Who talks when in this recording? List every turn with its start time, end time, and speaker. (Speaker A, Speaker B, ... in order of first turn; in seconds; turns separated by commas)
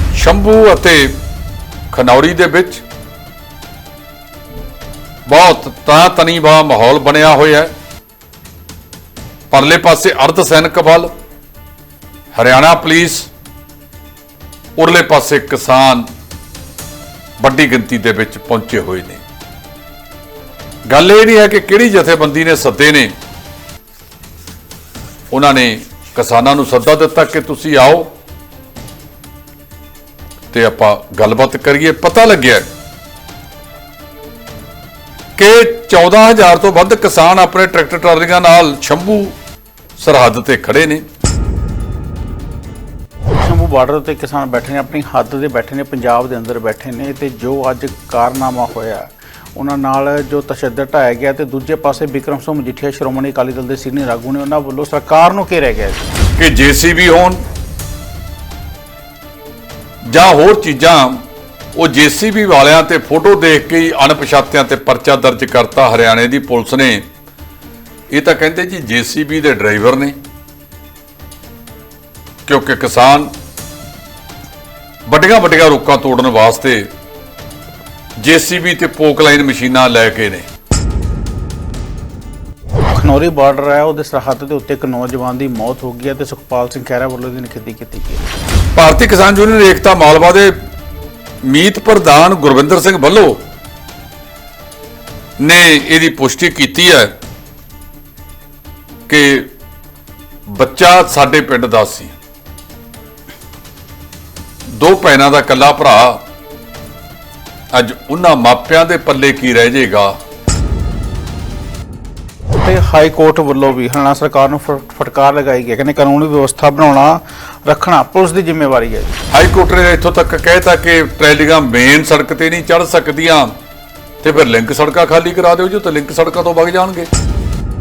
Speaker A: 0.1-1.2, Speaker A: 1.9-2.8, Speaker A: 5.2-7.7, Speaker A: 9.5-11.1, Speaker A: 12.3-13.3, Speaker A: 14.8-16.1, Speaker A: 17.4-19.2, Speaker A: 20.9-23.1, Speaker A: 25.3-28.1, Speaker A: 30.5-32.6, Speaker A: 35.4-39.4, Speaker A: 40.0-41.0, Speaker B: 43.3-56.1, Speaker A: 56.4-57.4, Speaker A: 60.0-67.1, Speaker A: 68.1-70.2, Speaker A: 72.5-73.3, Speaker A: 75.0-76.9, Speaker A: 78.2-80.5, Speaker B: 82.9-88.2, Speaker A: 88.7-90.5, Speaker A: 91.4-93.4, Speaker A: 95.4-97.1, Speaker A: 99.1-99.5, Speaker A: 100.5-102.1, Speaker A: 104.7-106.2, Speaker A: 107.7-110.2, Speaker B: 112.6-119.2, Speaker A: 119.3-123.5, Speaker A: 124.2-127.1